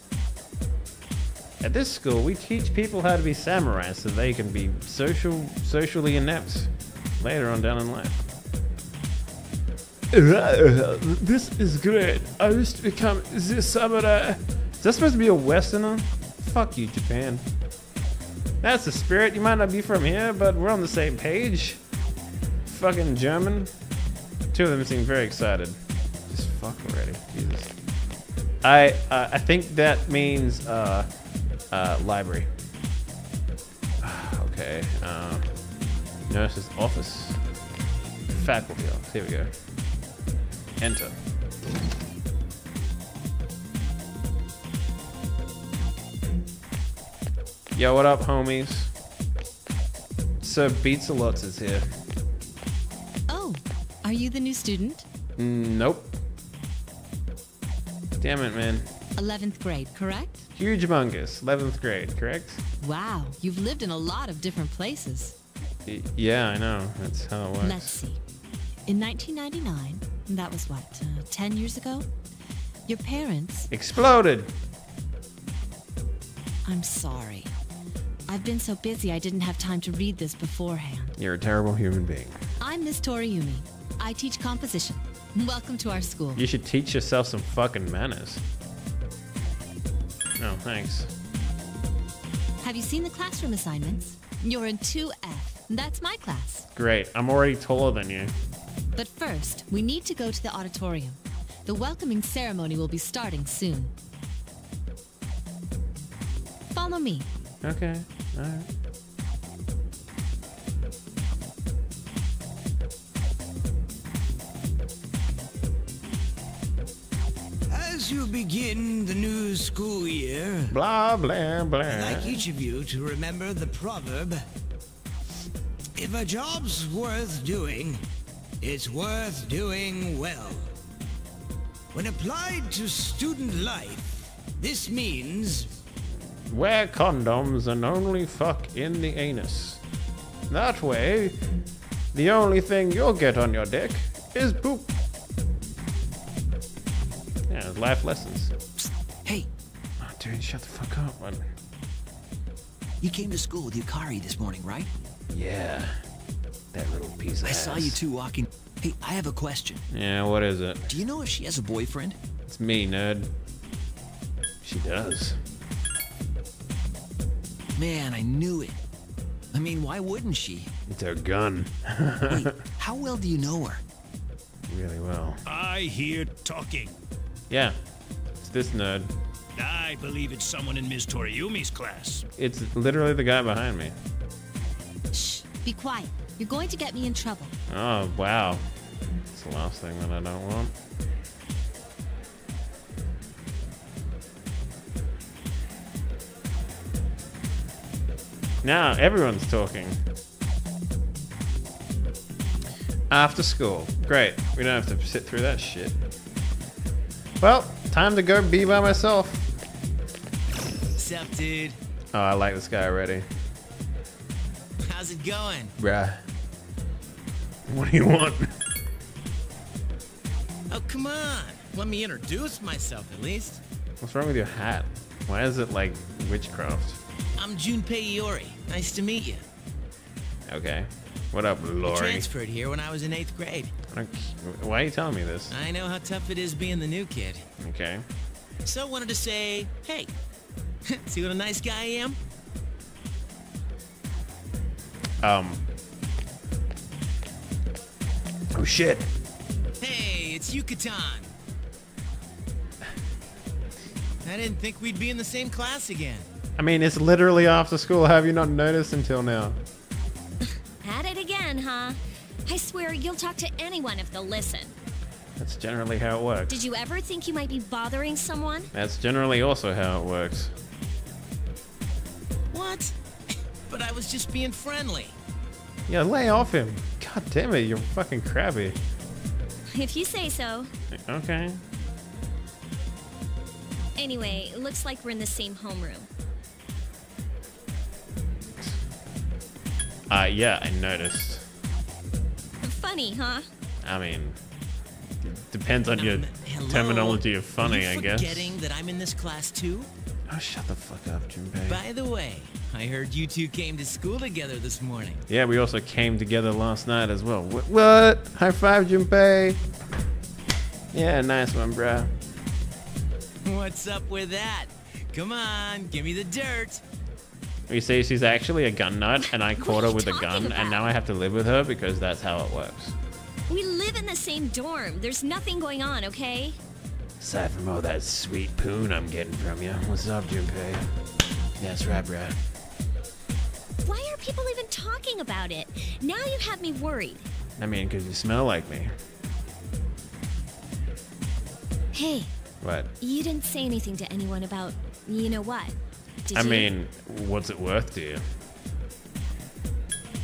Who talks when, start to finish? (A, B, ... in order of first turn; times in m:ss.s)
0:01.6-0:08.2 A
0:10.1-0:17.4 A
0:18.6-0:21.8 A
0:22.7-0:23.7 A
0:24.5-0:25.8 A
0:26.3-0:27.7 A
0:28.6-0:31.1 A
0:31.7-0:32.5 A
0:34.0-0:35.5 A
0:36.3-0:37.4 A
0:38.3-0:39.5 A
0:40.8-0:41.2 A
0:47.8-0:48.9 A
0:50.4-0:51.9 A
0:53.3-0:55.0 B
0:55.4-0:56.2 A
0:58.2-0:58.9 A
0:59.2-1:00.4 B
1:00.5-1:02.6 A
1:02.8-1:05.3 B
1:05.9-1:08.0 A
1:07.6-1:08.2 B
1:08.9-1:12.1 B
1:12.9-1:13.7 B
1:13.7-1:14.5 A
1:16.6-1:17.5 B
1:18.3-1:21.1 B
1:21.2-1:22.4 A
1:22.6-1:26.4 B
1:26.4-1:28.4 A
1:30.4-1:31.1 A
1:32.6-1:36.7 B
1:36.7-1:38.3 A
1:38.9-1:43.9 B
1:46.7-1:47.3 B
1:47.6-1:48.7 A
1:57.7-2:00.7 C
2:00.7-2:02.5 A
2:01.9-2:04.4 C
2:06.0-2:08.0 C
2:08.6-2:10.6 C
2:11.9-2:15.7 C
2:16.5-2:19.8 A
2:20.5-2:21.4 A
2:22.1-2:24.9 A
2:27.5-2:28.5 A
2:30.0-2:31.4 A
2:33.0-2:34.9 D
2:35.3-2:36.0 A
2:36.7-2:38.0 A
2:37.4-2:39.8 D
2:39.9-2:40.8 A
2:40.9-2:42.2 D
2:42.5-2:43.3 A
2:44.6-2:45.4 A
2:47.8-2:48.8 D
2:49.5-2:50.7 D
2:50.9-2:52.5 A
2:52.3-2:53.8 D
2:54.7-2:55.4 A
2:55.5-2:57.0 C
2:57.5-2:57.8 A
2:58.4-2:59.1 A
2:59.6-3:02.3 C
3:02.4-3:04.0 A
3:05.1-3:07.5 B
3:07.7-3:08.6 A
3:09.3-3:10.7 A
3:18.6-3:20.0 A
3:23.1-3:26.0 A
3:27.4-3:29.5 A
3:31.0-3:31.8 E
3:32.1-3:33.3 A
3:34.8-3:35.7 E
3:35.8-3:36.2 A
3:37.7-3:38.5 A
3:40.7-3:43.6 E
3:44.0-3:47.0 A
3:47.4-3:49.4 E
3:50.5-3:52.3 A
3:51.8-3:53.7 E
3:53.9-3:55.5 A
3:55.5-3:57.5 E
3:57.6-3:58.0 A
3:58.6-4:00.1 E
4:00.9-4:02.2 E
4:05.2-4:05.6 A
4:08.5-4:09.1 A
4:09.8-4:11.3 E
4:14.2-4:16.3 E
4:16.6-4:19.6 A
4:20.8-4:24.8 F
4:25.4-4:26.5 A
4:26.5-4:28.7 F
4:28.7-4:30.5 A
4:32.5-4:33.0 E
4:33.7-4:35.2 E
4:35.9-4:38.8 A
4:39.7-4:40.7 F
4:40.9-4:41.6 A
4:44.0-4:46.1 F
4:50.1-4:51.4 A
4:52.6-4:53.5 F
4:53.8-4:54.4 A
4:55.2-4:58.6 A
4:55.9-4:59.9 E
5:00.3-5:01.8 A
5:01.7-5:05.2 E
5:05.3-5:09.6 A
5:10.9-5:12.1 A
5:13.4-5:16.8 E
5:17.7-5:23.0 A
5:19.6-5:20.9 F
5:23.5-5:26.6 F
5:27.2-5:30.8 A
5:31.6-5:32.4 A
5:33.8-5:37.2 F
5:37.6-5:38.9 A
5:41.9-5:42.3 F
5:42.6-5:42.9 A
5:43.0-5:46.7 F
5:46.3-5:48.2 A